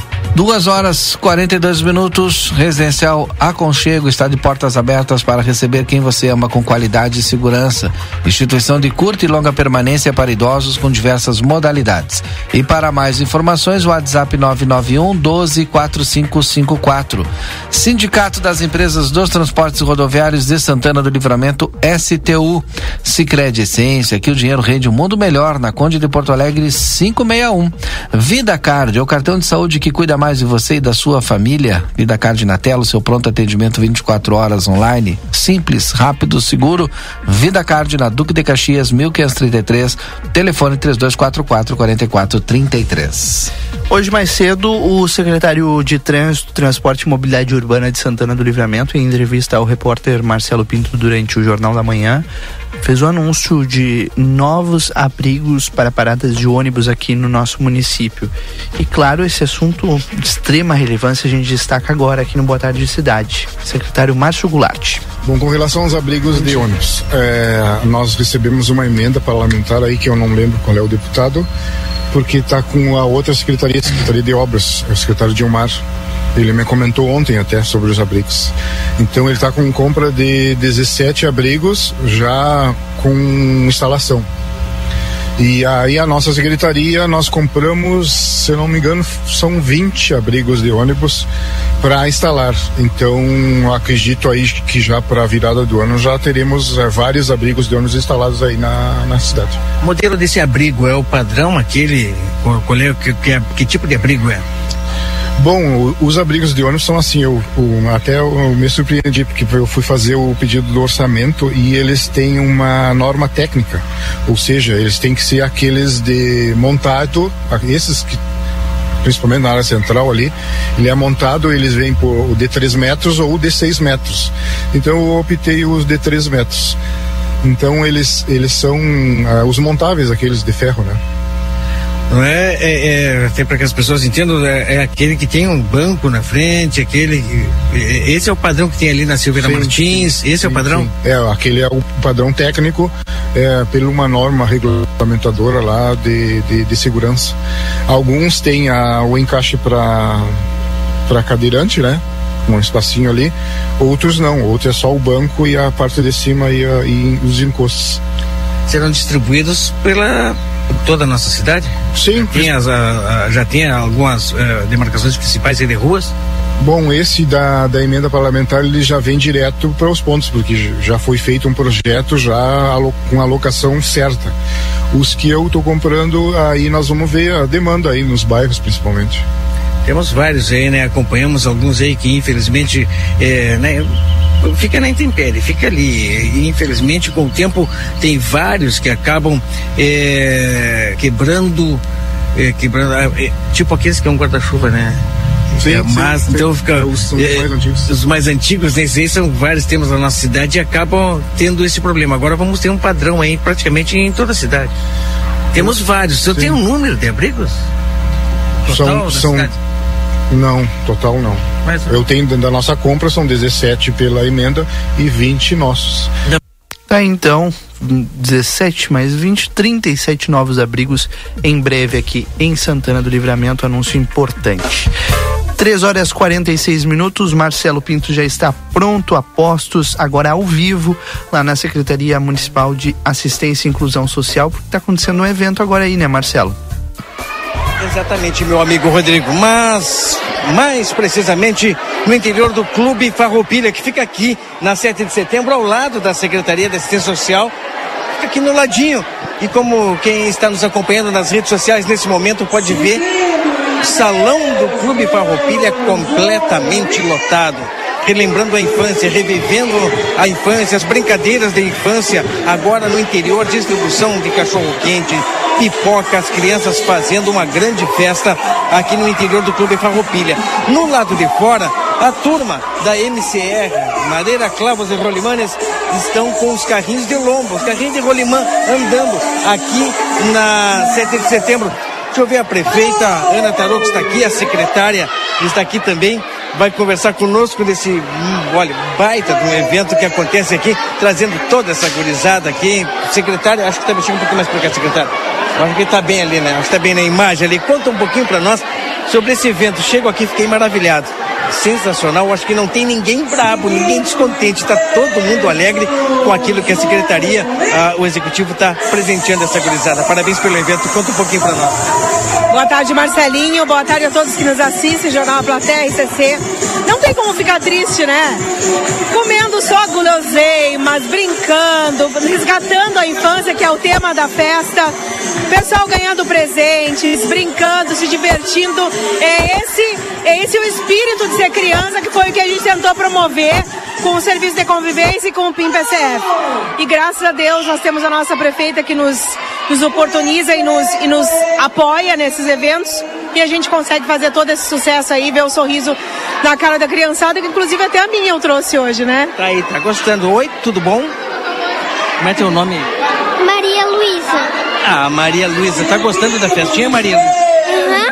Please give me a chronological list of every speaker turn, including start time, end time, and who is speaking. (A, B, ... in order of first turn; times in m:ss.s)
0:00.3-0:43.5 A
0:43.9-0:52.2 B
0:52.8-1:05.0 B
1:05.2-1:11.5 C
1:12.1-1:15.8 C
1:16.3-1:24.3 C
1:25.4-1:31.3 C
1:31.8-1:39.6 C
1:39.8-1:44.4 D
1:45.4-1:58.2 C
1:59.0-2:06.8 C
2:07.4-2:11.0 C
2:12.1-2:20.9 D
2:19.3-2:27.3 C
2:27.9-2:30.3 C
2:31.1-2:38.0 C
2:38.7-2:46.1 D
2:41.9-2:42.5 C
2:46.6-2:54.3 C
2:54.9-2:59.2 C
2:59.8-3:11.8 D
3:12.3-3:15.0 D
3:15.6-3:17.9 C
3:15.6-3:24.7 D
3:25.5-3:27.6 D
3:25.5-3:26.6 C
3:28.6-3:29.5 D
3:28.6-3:29.5 C
3:30.3-3:36.1 C
3:31.6-3:32.0 D
3:36.9-3:44.9 B
3:45.6-3:56.6 B
3:57.8-4:07.5 D
4:08.2-4:13.0 D
4:13.8-5:11.8 D
5:12.5-5:18.4 E
5:19.1-5:25.0 E
5:25.5-5:36.2 E
5:36.8-5:49.3 E
5:49.4-5:51.1 D
5:52.2-5:52.9 D
5:54.8-5:57.4 D